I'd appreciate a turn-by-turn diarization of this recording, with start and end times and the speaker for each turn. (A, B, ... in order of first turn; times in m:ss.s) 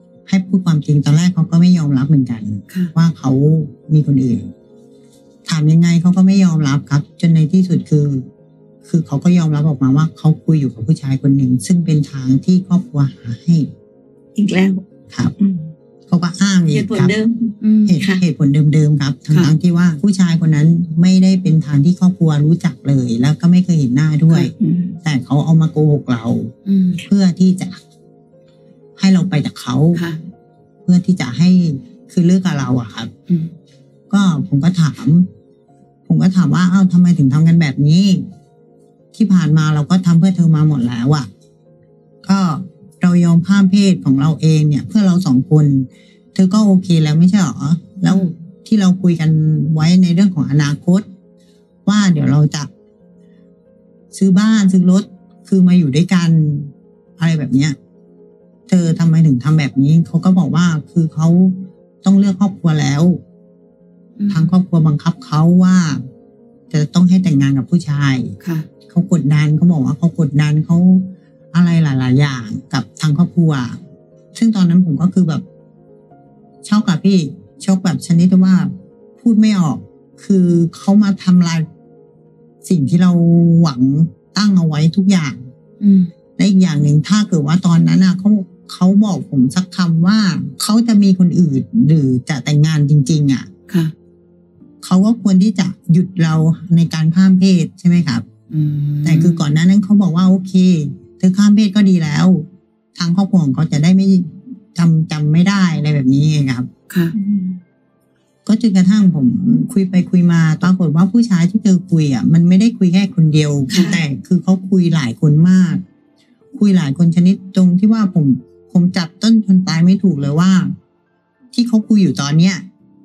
0:00.3-0:04.5 A
0:02.7-0:02.9 B
0:05.5-0:08.3 A
0:08.9-0:13.7 A
0:14.4-0:14.8 C
0:15.4-0:15.7 C
0:16.1-0:17.1 A
0:16.7-0:18.2 C
0:17.6-0:18.0 B
0:17.9-0:26.5 A
0:24.6-0:25.0 C
0:26.7-0:27.0 B
0:27.1-0:27.8 A
0:29.0-0:30.0 A
0:29.9-0:30.2 B
0:30.8-0:33.1 A
0:33.3-0:33.5 B
0:34.1-0:35.3 A
0:36.1-0:38.2 A
0:39.2-0:41.3 A
0:42.2-0:51.1 A
0:51.8-0:52.7 A
0:54.1-0:57.8 A
0:58.7-1:03.2 A
1:04.2-1:04.6 B
1:04.3-1:06.0 A
1:06.7-1:08.3 A
1:08.4-1:08.7 B
1:08.9-1:13.8 A
1:14.4-1:15.4 A
1:16.6-1:21.7 A
1:22.6-1:25.5 A
1:25.8-1:26.1 B
1:26.4-1:33.5 A
1:33.7-1:33.9 B
1:34.8-1:38.2 A
1:38.5-1:39.5 B
1:39.0-1:46.7 A
1:46.9-1:47.2 B
1:47.1-1:47.6 C
1:48.5-1:55.8 A
1:53.7-1:54.0 B
1:53.7-1:54.0 C
1:56.5-2:00.8 A
2:01.5-2:02.6 A